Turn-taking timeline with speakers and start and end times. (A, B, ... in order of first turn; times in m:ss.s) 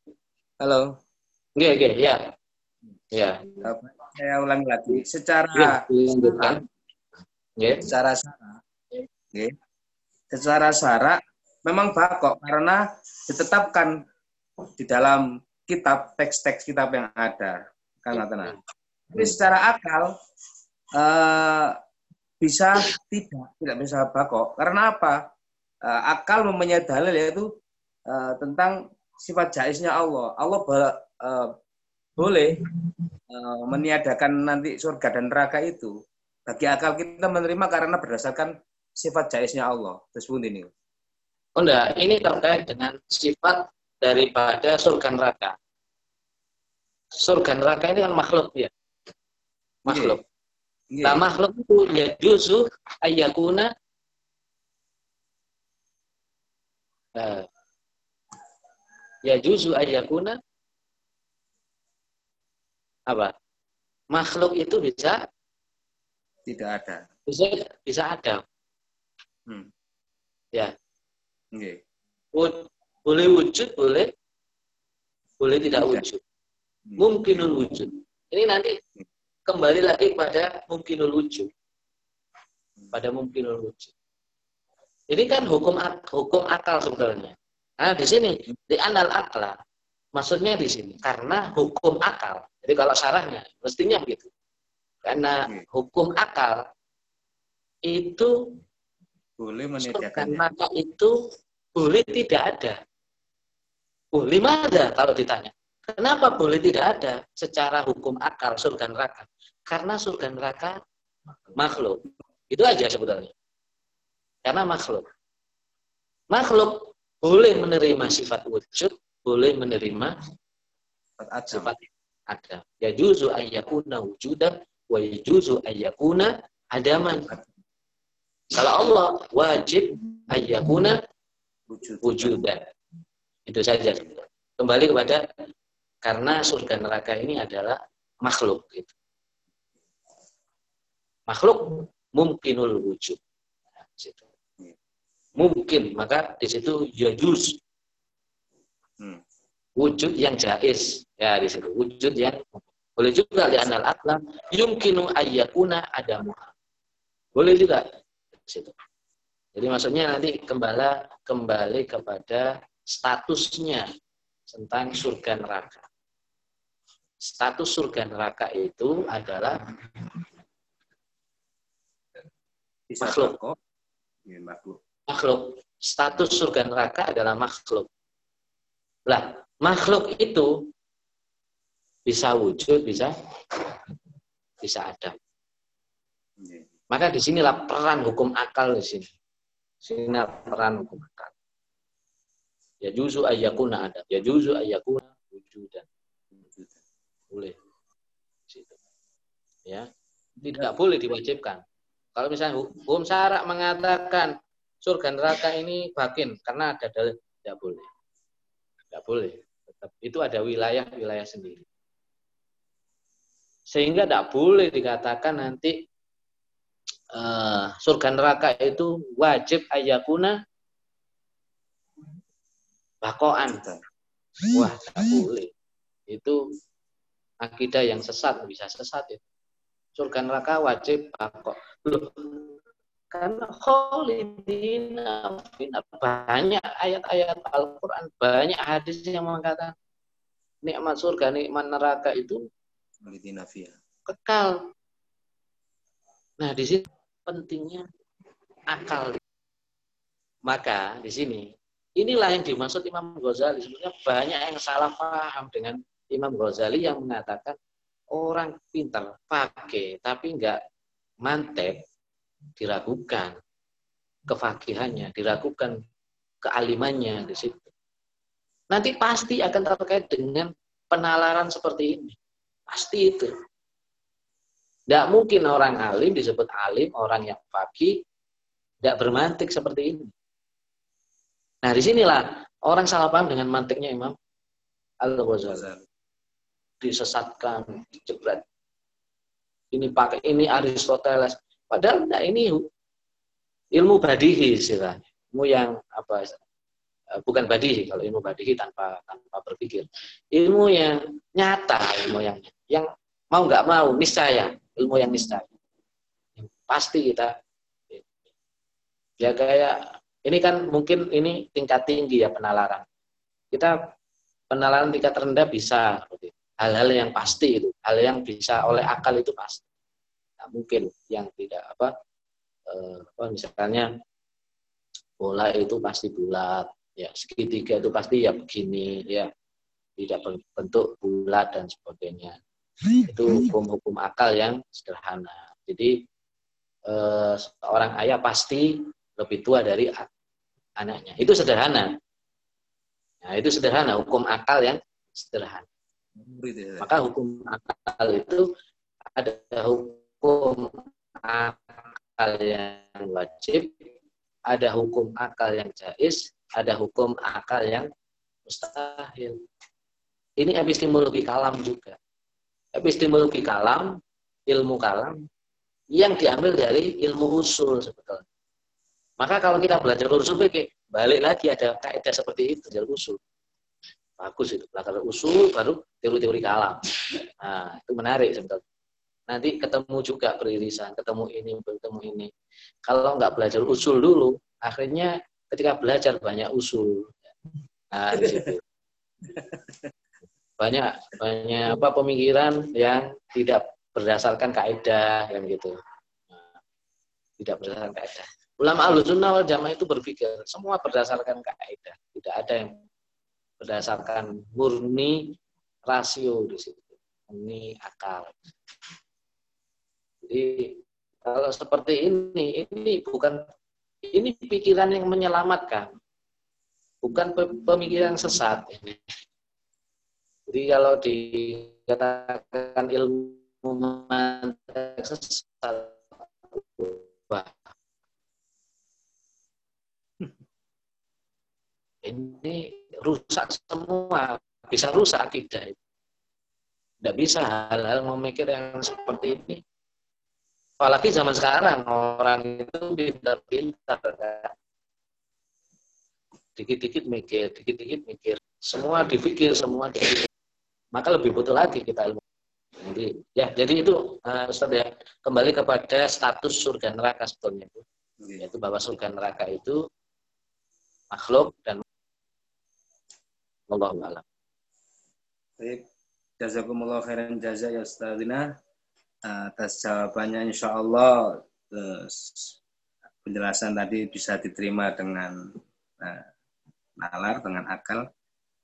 0:00.6-0:00.9 A
0:01.5-0:02.3 B
0:03.1-0:03.6 B
0:03.6-0:06.6 A
0:05.5-0:06.6 B
0:07.6-0:07.8 B
0:07.8-0:08.6 A
0:10.3-0:14.0 A
0:14.8-0:18.6 A
0:18.1-0:18.6 B
0:19.1-0:20.1 A
0:21.0-0:21.8 A
0:22.4-0:25.2 A
0:25.8-0:27.5 A
0:28.1-0:31.5 A
0:32.2-0:32.6 A
0:33.3-0:35.9 A
0:36.5-0:40.7 A
0:41.6-0:45.6 B
0:47.1-0:48.7 B
0:49.8-0:50.2 B
0:49.9-0:50.2 A
0:50.9-0:51.2 A
0:51.0-0:53.7 B
0:57.1-0:57.5 B
0:59.2-1:00.4 B
1:03.1-1:03.3 B
1:04.1-1:05.2 B
1:06.5-1:07.1 A
1:07.3-1:08.4 B
1:12.3-1:14.1 B
1:15.4-1:16.2 B
1:17.0-1:18.8 B
1:19.5-1:21.5 B
1:22.9-1:23.9 B
1:25.1-1:29.6 B
1:30.1-1:34.3 B
1:35.0-1:36.6 B
1:37.8-1:38.3 B
1:39.4-1:40.4 A
1:39.8-1:41.1 B
1:41.7-1:42.8 B
1:44.1-1:50.8 B
1:51.5-1:53.3 B
1:54.4-1:55.0 B
1:56.3-2:00.1 B
2:01.2-2:01.7 A
2:01.5-2:07.3 B
2:08.5-2:11.0 B
2:11.7-2:12.3 A
2:12.0-2:12.6 B
2:13.5-2:15.2 B
2:16.0-2:18.9 B
2:21.3-2:23.2 B
2:23.9-2:24.2 B
2:25.4-2:27.6 B
2:29.8-2:36.5 B
2:37.3-2:38.7 B
2:39.5-2:43.9 B
2:44.5-2:45.9 B
2:47.2-2:49.6 B
2:52.9-2:53.6 A
2:53.0-2:53.3 B
2:54.2-2:54.8 A
2:55.1-2:57.9 B
2:59.1-3:00.7 B
3:02.1-3:03.8 B
3:04.6-3:05.1 B
3:06.4-3:06.7 A
3:06.9-3:09.1 B
3:09.8-3:11.3 B
3:12.8-3:15.8 B
3:16.4-3:16.8 A
3:17.3-3:17.6 B
3:18.5-3:18.8 B
3:20.4-3:21.6 B
3:22.1-3:27.8 B
3:28.9-3:31.6 B
3:33.7-3:35.8 B
3:37.1-3:40.4 B
3:43.0-3:43.6 B
3:44.5-3:45.5 B
3:46.1-3:46.4 B
3:47.4-3:49.2 B
3:50.0-3:52.5 B
3:53.1-3:59.7 B
4:00.6-4:02.4 B
4:03.0-4:03.7 A
4:04.0-4:04.6 B
4:06.4-4:07.8 B
4:08.7-4:09.2 B
4:10.4-4:17.6 B
4:18.1-4:20.6 B
4:21.2-4:21.8 B
4:22.6-4:23.3 B
4:24.3-4:25.8 B
4:26.4-4:27.7 B
4:28.7-4:32.2 B
4:32.7-4:33.3 B
4:34.9-4:38.0 B
4:38.8-4:40.1 B
4:41.6-4:44.2 B
4:45.0-4:45.7 B
4:45.5-4:45.8 A
4:46.8-4:48.4 B
4:49.7-4:52.7 B
4:53.7-4:56.4 B
4:57.1-5:05.5 B
5:06.4-5:07.3 B
5:09.2-5:12.8 B
5:14.5-5:19.6 B
5:20.4-5:21.9 B
5:22.7-5:23.9 B
5:25.2-5:29.3 B
5:30.0-5:32.4 B
5:33.0-5:36.0 B
5:36.9-5:40.1 B
5:40.8-5:41.9 B
5:43.2-5:45.6 B
5:46.2-5:46.9 A
5:46.8-5:48.4 B
5:49.2-5:53.7 B
5:54.5-5:57.9 B
5:58.4-5:59.4 B
6:00.4-6:02.0 B
6:02.7-6:05.2 B
6:05.9-6:08.2 B
6:09.2-6:13.2 B
6:14.2-6:18.6 B
6:19.3-6:22.3 B
6:22.8-6:27.2 B
6:27.9-6:28.6 B
6:30.6-6:35.8 B
6:37.4-6:42.8 B
6:43.6-6:48.3 B
6:50.2-6:53.4 B
6:54.1-6:55.9 B
6:57.0-6:59.0 B
7:00.5-7:07.7 B
7:12.0-7:15.8 B
7:17.0-7:19.6 B
7:20.8-7:24.5 B
7:26.6-7:30.3 B
7:30.9-7:32.2 B
7:32.8-7:37.8 B
7:38.4-7:39.8 B
7:41.1-7:41.8 B
7:43.7-7:44.2 B
7:45.6-7:45.8 A
7:46.4-7:48.4 A
7:49.2-7:52.6 A
7:53.2-7:55.3 A
7:56.0-7:56.3 A
7:57.0-7:58.0 A